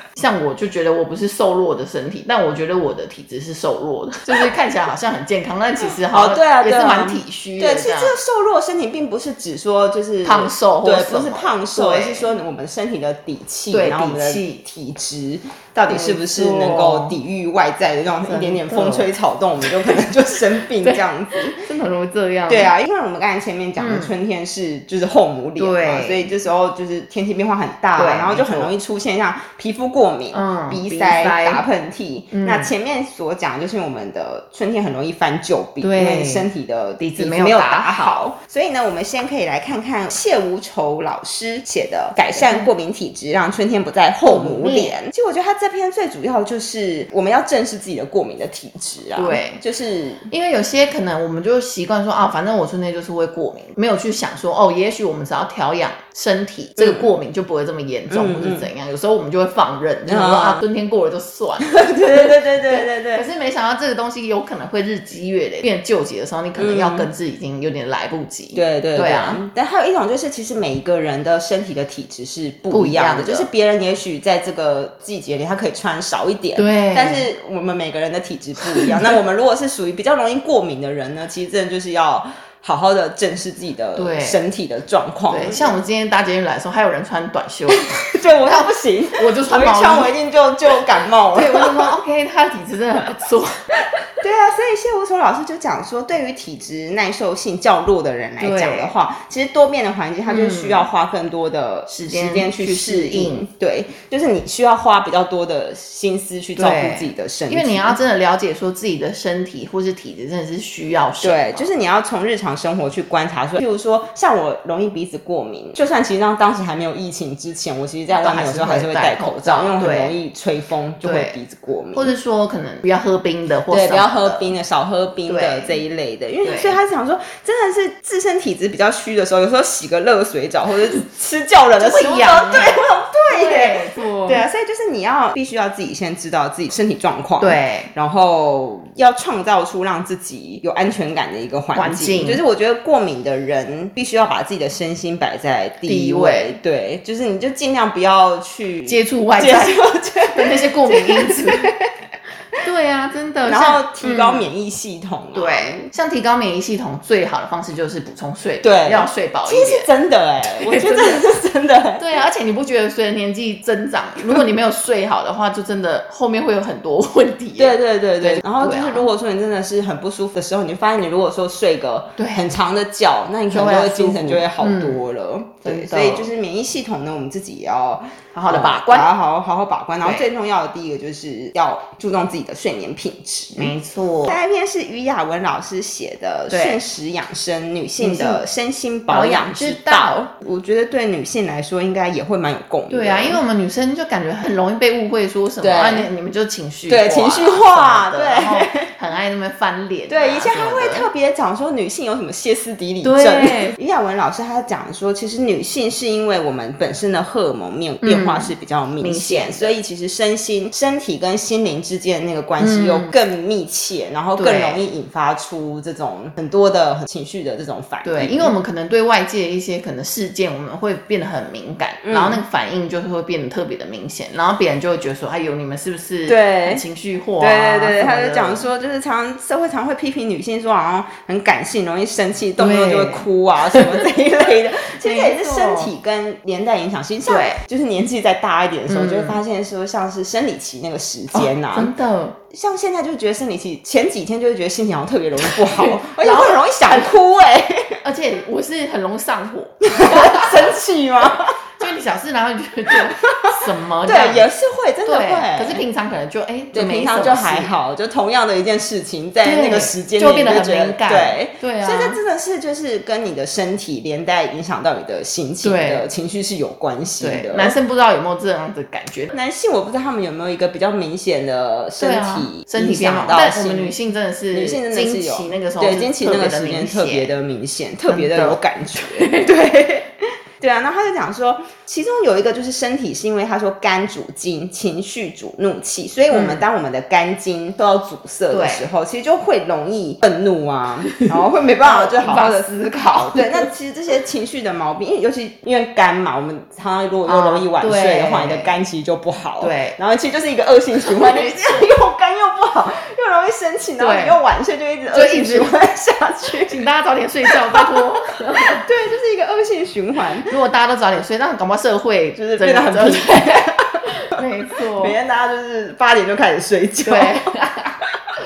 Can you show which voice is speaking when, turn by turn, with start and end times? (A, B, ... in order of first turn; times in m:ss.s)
0:00.2-0:08.1 A
0:05.9-0:21.6 B
0:10.2-0:12.3 A
0:13.7-0:14.6 A
0:15.9-0:17.2 A
0:18.2-0:19.1 A
0:20.8-0:22.7 A
0:22.5-0:50.2 B
0:23.8-0:24.1 A
0:25.6-0:26.2 A
0:28.0-0:28.7 A
0:30.3-0:31.6 A
0:32.3-0:32.7 A
0:35.8-0:36.5 A
0:37.0-0:38.2 A
0:42.2-0:42.7 A
0:44.2-0:44.9 A
0:49.2-0:49.6 A
0:50.3-1:09.4 A
0:56.8-0:57.0 B
0:58.1-0:58.7 B
1:00.0-1:00.6 B
1:01.6-1:03.2 B
1:06.6-1:07.1 B
1:08.5-1:25.8 B
1:12.7-1:13.5 A
1:16.6-1:17.3 A
1:18.8-1:19.1 A
1:24.0-1:24.4 A
1:25.3-1:30.1 A
1:27.7-1:32.0 B
1:31.3-1:33.7 A
1:34.2-1:48.0 B
1:38.4-1:38.9 A
1:40.3-1:40.9 A
1:41.9-1:43.5 A
1:46.6-1:51.7 A
1:51.2-2:02.1 B
1:58.2-2:00.1 A
2:01.0-2:01.3 A
2:01.9-2:04.5 A
2:03.7-2:31.8 B
2:05.3-2:05.7 A
2:06.4-2:06.8 A
2:11.8-2:14.4 A
2:17.4-2:17.9 A
2:21.7-2:22.4 A
2:25.8-2:26.6 A
2:28.8-2:31.7 A
2:32.6-2:34.5 A
2:33.5-2:35.9 B
2:35.3-2:39.9 A
2:38.6-2:42.0 B
2:40.4-2:41.2 A
2:42.0-2:49.1 A
2:47.6-3:03.7 B
2:52.2-2:52.5 A
2:53.5-2:55.0 A
2:55.6-2:56.3 A
2:58.3-2:59.1 A
3:03.6-3:04.4 A
3:04.3-3:13.4 B
3:06.5-3:06.8 A
3:08.0-3:08.4 A
3:09.1-3:10.2 A
3:12.9-3:21.1 A
3:15.6-3:16.1 B
3:16.9-3:18.9 B
3:20.1-3:38.5 B
3:23.0-3:23.7 A
3:28.0-3:29.7 A
3:32.6-3:33.1 A
3:34.4-3:34.8 A
3:38.0-3:48.7 A
3:42.0-3:42.4 B
3:46.3-3:46.8 B
3:47.4-4:01.9 B
3:52.6-3:54.0 A
3:55.0-3:55.9 A
3:57.2-3:57.6 A
3:58.9-3:59.4 A
4:01.3-4:02.4 A
4:02.5-4:08.0 B
4:05.4-4:07.1 A
4:08.0-4:10.7 A
4:09.8-4:11.6 B
4:11.8-4:14.5 A
4:12.9-4:15.8 B
4:15.0-4:17.7 A
4:16.7-4:27.7 B
4:19.4-4:22.2 A
4:25.6-4:26.1 A
4:27.2-4:29.3 A
4:29.3-4:33.9 B
4:32.0-4:37.3 A
4:34.5-5:06.8 B
4:38.1-4:39.5 A
4:46.3-4:46.6 A
4:48.5-4:48.9 A
4:51.8-4:53.7 A
4:57.2-4:58.7 A
4:59.6-5:00.0 A
5:01.2-5:01.8 A
5:04.0-5:04.4 A
5:05.1-5:05.7 A
5:06.7-5:08.8 A
5:07.5-5:07.9 B
5:08.6-5:10.5 B
5:10.5-5:15.2 A
5:12.4-5:14.1 B
5:15.0-5:17.4 B
5:17.0-5:18.0 A